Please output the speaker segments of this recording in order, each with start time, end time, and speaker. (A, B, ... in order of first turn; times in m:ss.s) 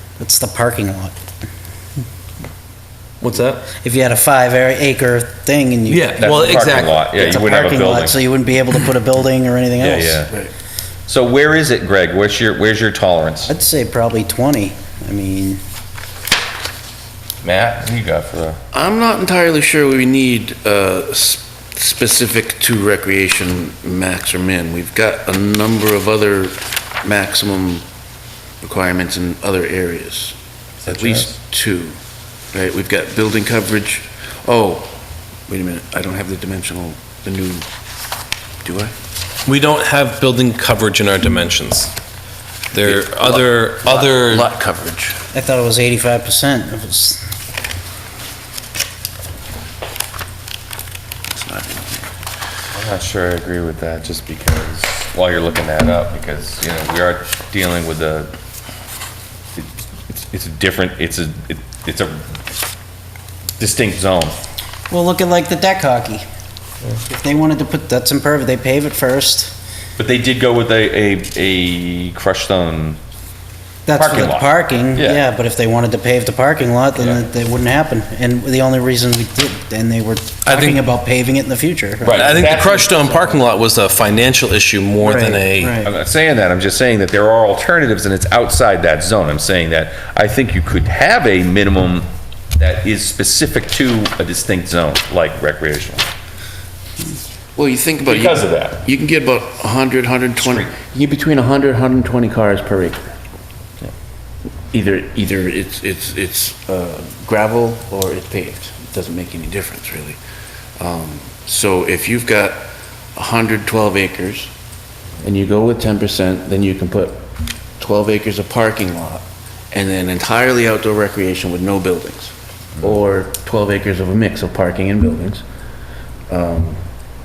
0:00.2-0:01.1 A
0:03.2-0:03.6 B
0:03.8-0:10.3 A
0:05.9-0:07.0 B
0:06.2-0:08.2 C
0:09.8-0:10.3 C
0:11.1-0:13.5 C
0:13.4-0:15.6 A
0:17.4-0:18.6 C
0:18.7-0:27.8 D
0:28.6-0:32.0 D
0:30.8-0:31.4 C
0:32.5-0:34.9 D
0:35.5-0:37.6 D
0:38.6-0:38.9 D
0:39.5-0:41.9 B
0:42.7-0:44.5 B
0:42.7-0:45.2 D
0:45.3-0:47.2 A
0:51.3-0:52.1 D
0:52.8-0:58.3 C
0:59.6-1:02.4 C
1:03.6-1:04.4 C
1:04.9-1:06.2 A
1:07.1-1:09.5 A
1:10.0-1:13.0 C
1:13.9-1:23.3 A
1:13.9-1:15.2 C
1:20.5-1:20.8 B
1:22.0-1:22.9 C
1:22.1-1:25.8 B
1:25.0-1:25.9 A
1:25.8-1:36.1 C
1:37.6-1:43.1 D
1:38.1-1:38.8 C
1:40.4-1:40.8 C
1:44.7-1:50.2 D
1:50.8-1:54.5 D
1:55.2-1:57.2 D
1:57.8-2:05.4 D
2:02.8-2:03.0 C
2:06.3-2:06.8 D